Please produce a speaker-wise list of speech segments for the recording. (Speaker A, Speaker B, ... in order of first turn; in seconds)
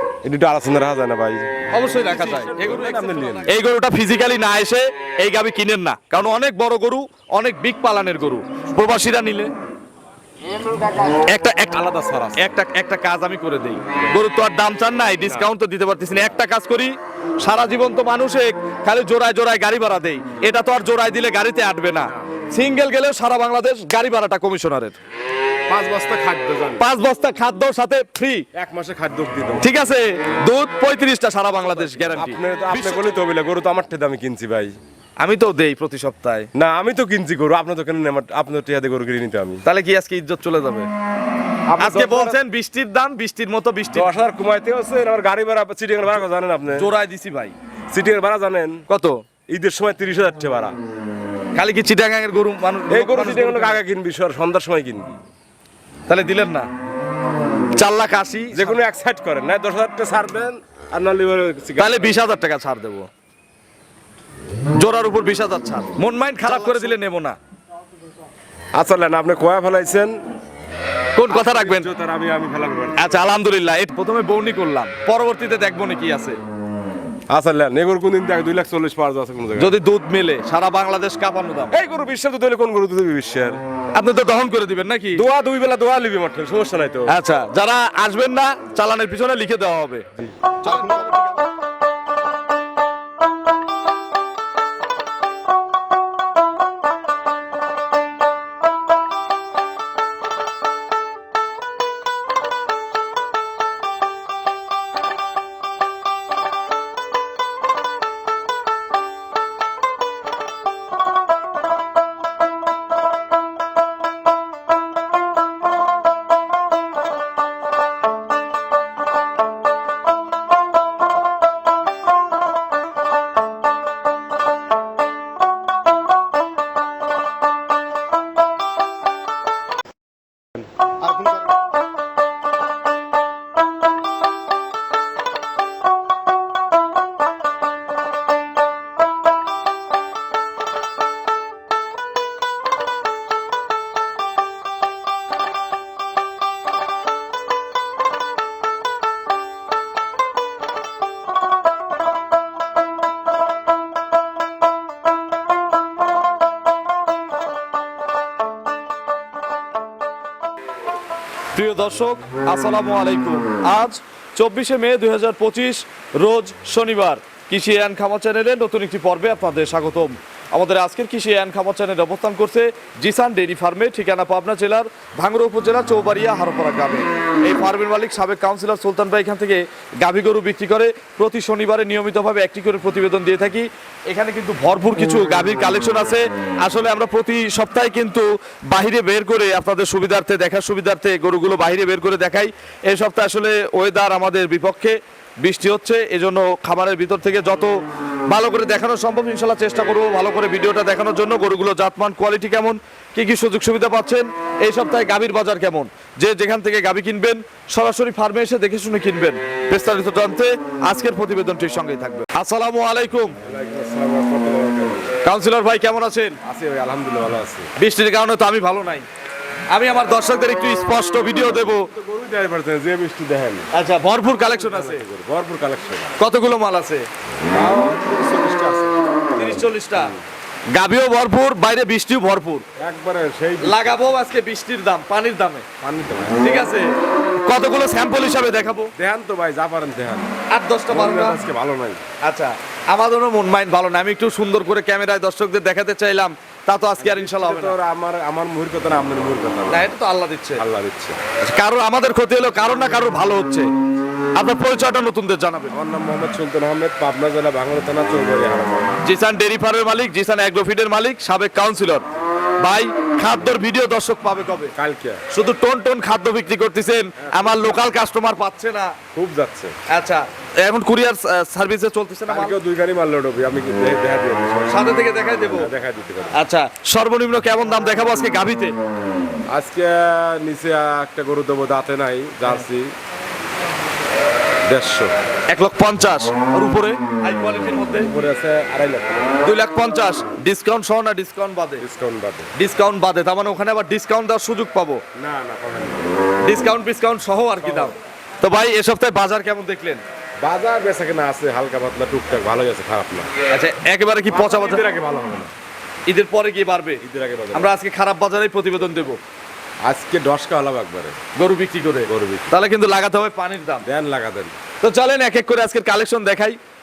Speaker A: 0.2-3.5, 11.7-12.4, 15.2-15.5, 25.7-26.8, 28.5-29.7, 31.6-34.8, 36.5-39.6, 41.7-42.4, 43.9-46.9, 47.9-48.8, 49.5-50.8, 52.9-55.2, 58.5-62.1, 66.5-67.0, 68.8-70.2, 71.3-73.1, 77.3-79.8, 81.7-83.6, 85.1-87.2, 90.2-90.7, 213.4-215.2, 216.4-217.7, 221.5-223.7, 224.4-226.2, 227.5-229.0, 232.8-234.1, 235.8-236.4, 239.0-240.3, 240.9-242.0, 247.0-249.9, 250.6-251.2, 255.7-258.9, 264.8-265.2, 267.3-267.8, 269.1-269.8, 272.3-274.9, 275.4-276.4, 279.5-282.9, 284.7-285.1, 288.0-289.3, 291.8-292.5, 295.1-296.1, 297.6-297.9, 300.4-303.3, 304.3-305.5, 307.0-307.7, 309.8-311.2, 312.1-312.5, 313.9-314.6
Speaker B: 1.7-9.5, 11.0-11.8, 12.4-25.0, 26.8-28.5, 29.6-33.2, 35.2-36.5, 39.6-40.9, 41.8-44.1, 46.7-47.5, 48.9-49.2, 51.5-53.8, 56.1-56.7, 57.8-58.8, 61.8-63.1, 64.8-67.4, 71.2-71.9, 73.0-76.4, 79.6-81.8, 84.0-85.2, 87.1-90.1, 90.6-91.3, 161.5-197.7, 198.3-213.3, 215.2-216.4, 217.8-219.1, 219.7-221.9, 223.7-225.0, 226.2-227.1, 229.3-230.1, 230.7-232.7, 233.6-235.7, 236.4-236.9, 237.4-238.9, 240.5-241.4, 242.2-247.8, 249.7-250.6, 251.4-253.7, 254.4-255.8, 259.0-262.1, 262.6-264.7, 265.3-269.0, 269.9-272.6, 274.7-275.7, 276.3-278.7, 285.5-288.1, 289.4-291.8, 292.6-295.0, 296.4-300.0, 303.5-304.8, 306.1-307.0, 307.5-309.2, 311.4-313.9, 314.8-316.6